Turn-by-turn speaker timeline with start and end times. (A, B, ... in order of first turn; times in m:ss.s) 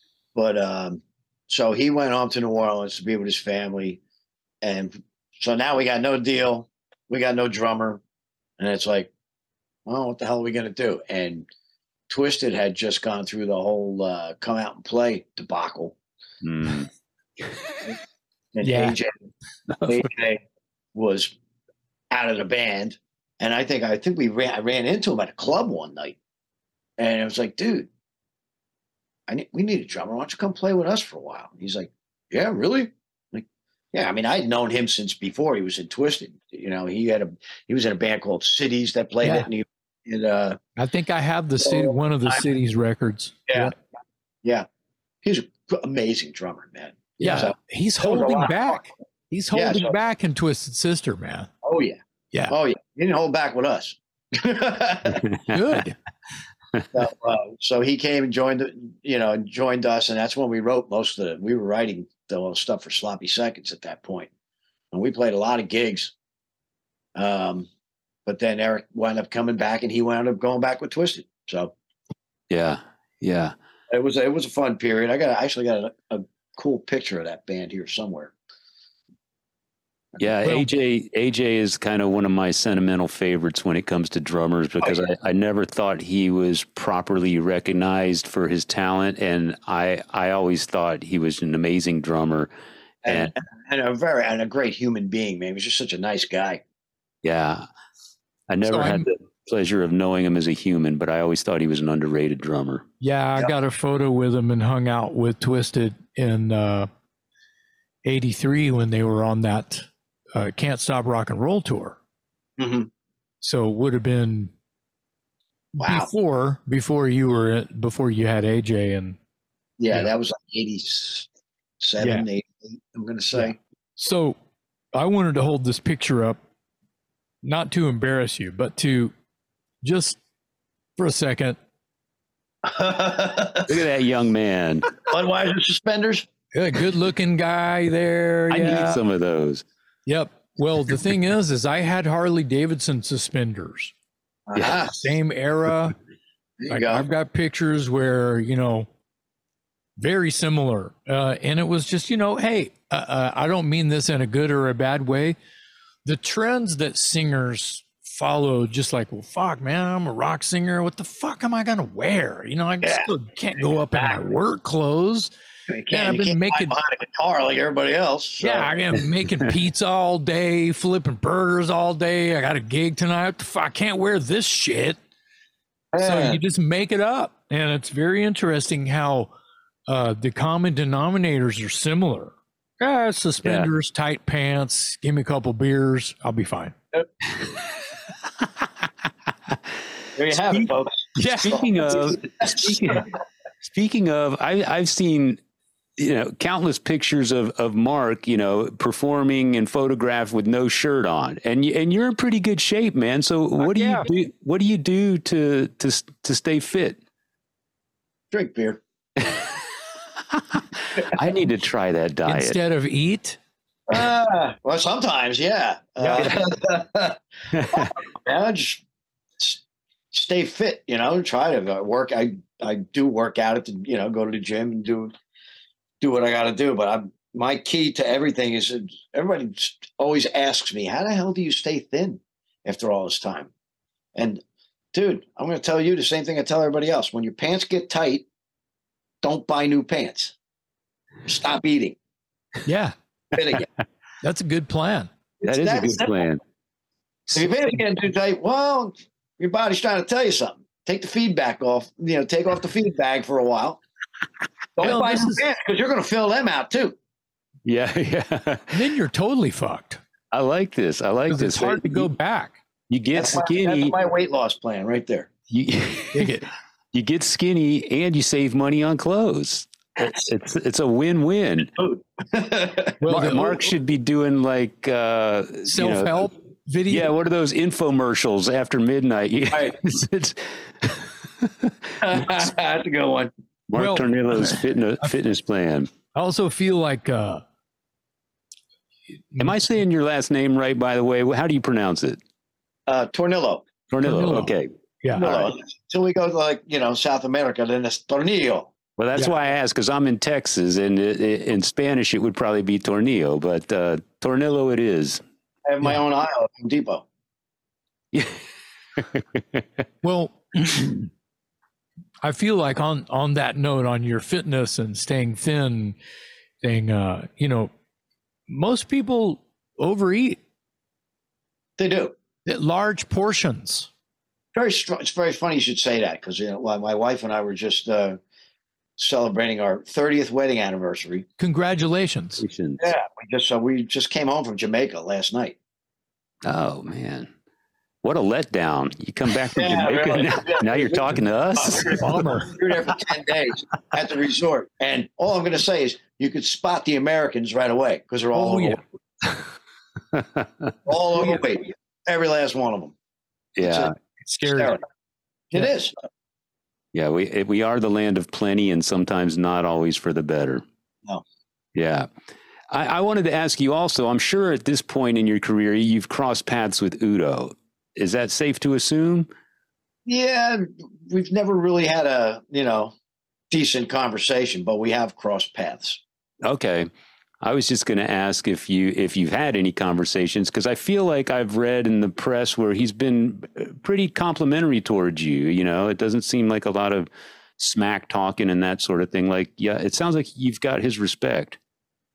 0:00.3-0:04.0 A
0:04.6-0:08.0 A
0:08.6-0:09.1 A
0:09.8-0:11.5 A
0:12.1-0:16.0 A
0:16.4-0:16.9 B
0:18.5-0:19.2 A
0:18.6-0:19.0 C
0:19.7-0:20.0 B
0:19.8-0:20.4 A
0:20.9-0:21.3 A
0:22.1-0:26.2 A
0:27.0-0:27.9 A
0:29.3-0:40.6 A
0:39.2-0:39.5 C
0:40.8-0:43.7 C
0:41.6-0:42.4 A
0:43.5-0:43.7 A
0:45.2-0:48.8 A
0:47.2-0:51.5 C
0:49.5-0:49.9 A
0:51.6-0:55.2 A
0:55.3-0:55.6 B
0:55.5-0:55.9 C
0:56.9-1:04.3 A
1:04.9-1:06.1 A
1:07.2-1:07.7 A
1:08.2-1:11.7 A
1:12.5-1:13.5 B
1:13.9-1:18.3 A
1:20.2-1:32.5 B
1:24.8-1:25.0 A
1:33.0-1:36.6 A
1:33.0-1:33.3 B
1:37.2-1:37.6 B
1:38.5-1:42.8 B
1:38.6-1:39.1 C
1:43.0-1:46.9 C
1:48.0-1:52.0 C
1:52.6-1:52.9 A
1:53.4-1:54.5 C
1:55.8-1:59.2 C
1:55.8-1:56.1 A
1:59.8-2:01.3 A
2:01.8-2:03.6 A
2:02.0-2:02.2 C
2:03.3-2:04.4 C
2:04.9-2:06.4 C
2:07.4-2:09.1 C
2:09.8-2:10.2 C
2:11.0-2:11.6 C
2:12.6-2:13.8 A
2:13.6-2:14.9 B
2:15.0-2:16.3 A
2:16.5-2:19.0 C
2:18.5-2:19.6 B
2:20.0-2:23.9 C
2:24.5-2:25.0 A
2:24.5-2:24.8 B
2:24.9-2:25.9 C
2:26.6-2:27.0 A
2:26.7-2:28.9 C
2:30.0-2:35.4 C
2:36.0-2:45.3 C
2:42.8-2:43.1 A
2:45.7-2:48.8 A
2:45.9-2:46.7 C
2:48.4-2:55.0 C
2:55.9-2:56.4 A
2:56.0-2:59.3 C
2:59.9-3:06.8 C
3:03.4-3:03.7 B
3:10.2-3:13.0 A
3:11.2-3:11.6 C
3:11.3-3:13.1 B
3:13.6-3:15.4 B
3:16.0-3:27.0 B
3:23.6-3:24.0 C
3:28.3-3:28.8 A
3:29.2-3:29.6 B
3:30.3-3:32.6 B
3:32.3-3:33.4 C
3:33.9-3:37.2 A
3:36.0-3:36.3 C
3:37.5-3:37.9 B
3:37.7-3:38.8 A
3:39.4-3:45.1 A
3:46.0-3:53.5 A
3:54.1-3:58.2 A
3:59.2-4:00.3 A
4:01.3-4:02.0 A
4:02.6-4:02.9 C
4:03.3-4:03.7 A
4:04.2-4:05.1 C
4:05.4-4:06.3 A
4:05.4-4:06.4 B
4:07.3-4:13.8 A
4:14.8-4:17.0 A
4:14.8-4:15.4 C
4:17.6-4:18.8 B
4:18.7-4:20.0 C
4:20.3-4:22.1 B
4:21.3-4:22.6 C
4:22.9-4:23.9 B
4:23.1-4:25.3 A
4:25.5-4:26.4 B
4:26.1-4:26.4 C
4:26.9-4:31.7 B
4:31.8-4:33.7 A
4:33.0-4:33.5 C
4:33.1-4:36.3 B
4:35.6-4:37.1 C
4:36.9-4:41.7 B
4:42.0-4:43.3 A
4:43.7-4:45.9 B
4:43.8-4:45.1 C
4:46.1-4:47.4 C
4:49.3-4:49.7 C
4:49.4-4:52.2 B
4:52.9-4:53.6 A
4:53.9-4:55.4 B
4:54.0-4:55.3 C
4:55.1-4:58.7 A
4:59.0-5:05.2 B
5:05.7-5:07.0 A
5:08.1-5:08.4 B
5:09.0-5:09.6 B
5:10.0-5:11.0 C
5:12.2-5:16.0 C
5:16.6-5:17.7 C
5:18.5-5:20.4 C
5:21.8-5:22.1 A
5:22.4-5:23.9 C
5:24.5-5:28.2 A
5:29.0-5:31.2 A
5:31.4-5:32.4 C
5:32.4-5:32.8 B
5:32.8-5:35.6 A
5:36.4-5:37.3 B
5:38.0-5:42.2 B
5:39.5-5:48.8 A
5:41.8-5:42.5 C
5:48.3-5:48.8 C
5:50.1-5:50.7 B
5:50.8-5:52.9 A
5:53.6-5:53.9 B
5:53.6-5:53.9 A
5:54.2-5:54.8 C
5:54.5-5:54.8 A
5:55.5-5:55.9 A
5:56.9-6:00.6 B
6:01.7-6:02.1 B
6:02.7-6:09.3 B
6:10.0-6:12.9 A
6:13.5-6:16.0 A
6:16.4-6:16.9 B
6:17.4-6:31.6 B